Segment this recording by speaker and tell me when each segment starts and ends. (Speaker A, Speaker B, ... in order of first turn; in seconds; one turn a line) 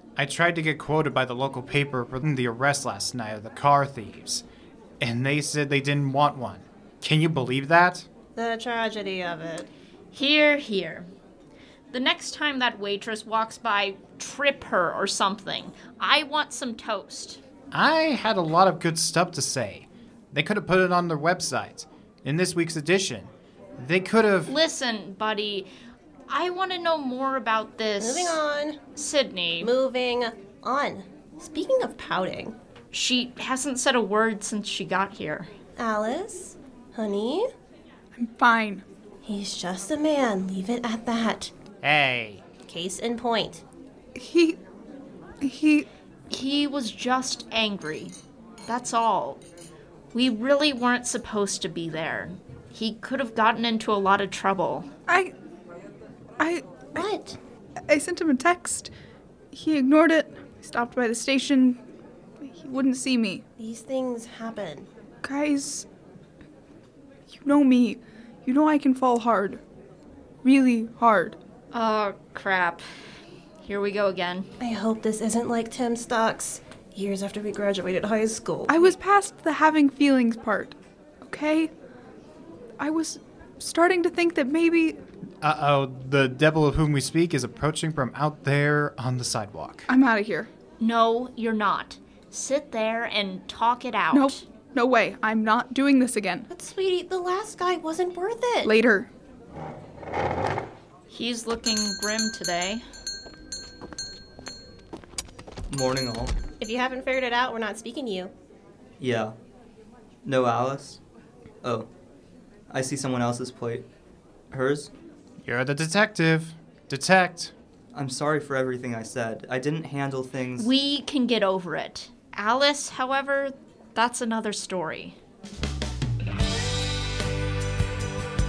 Speaker A: 0.2-4.4
Speaker A: 5.0-8.1
Speaker B: 8.4-9.7
Speaker C: 10.1-11.1
Speaker C: 11.9-17.4
Speaker A: 17.7-24.5
Speaker C: 24.5-25.7
Speaker C: 26.3-28.4
Speaker B: 28.0-28.8
Speaker C: 29.0-29.7
Speaker B: 29.6-32.6
Speaker C: 32.9-35.5
Speaker B: 35.8-37.5
Speaker D: 38.2-38.9
Speaker B: 39.2-41.5
Speaker A: 41.8-42.4
Speaker B: 42.6-43.6
Speaker D: 44.2-44.6
Speaker D: 45.4-45.9
Speaker C: 46.3-48.1
Speaker C: 48.7-49.4
Speaker C: 50.1-54.9
Speaker D: 55.1-55.3
Speaker D: 56.4-57.0
Speaker B: 57.0-57.4
Speaker D: 57.9-58.9
Speaker D: 59.5-61.8
Speaker D: 62.4-63.4
Speaker B: 63.6-64.9
Speaker D: 65.2-65.9
Speaker D: 67.3-69.6
Speaker D: 70.4-71.4
Speaker C: 71.7-72.8
Speaker C: 73.6-74.5
Speaker B: 74.6-78.9
Speaker D: 78.7-81.7
Speaker D: 82.8-85.0
Speaker A: 85.4-89.9
Speaker D: 89.9-90.5
Speaker C: 90.8-94.4
Speaker D: 94.1-96.5
Speaker B: 96.5-98.8
Speaker D: 98.6-99.1
Speaker C: 101.1-102.8
Speaker E: 105.7-106.3
Speaker B: 106.6-108.3
Speaker E: 109.0-109.3
Speaker E: 110.2-111.0
Speaker E: 111.6-111.9
Speaker E: 112.7-113.9
Speaker E: 114.5-114.9
Speaker A: 115.5-117.5
Speaker E: 117.9-120.7
Speaker C: 120.6-125.2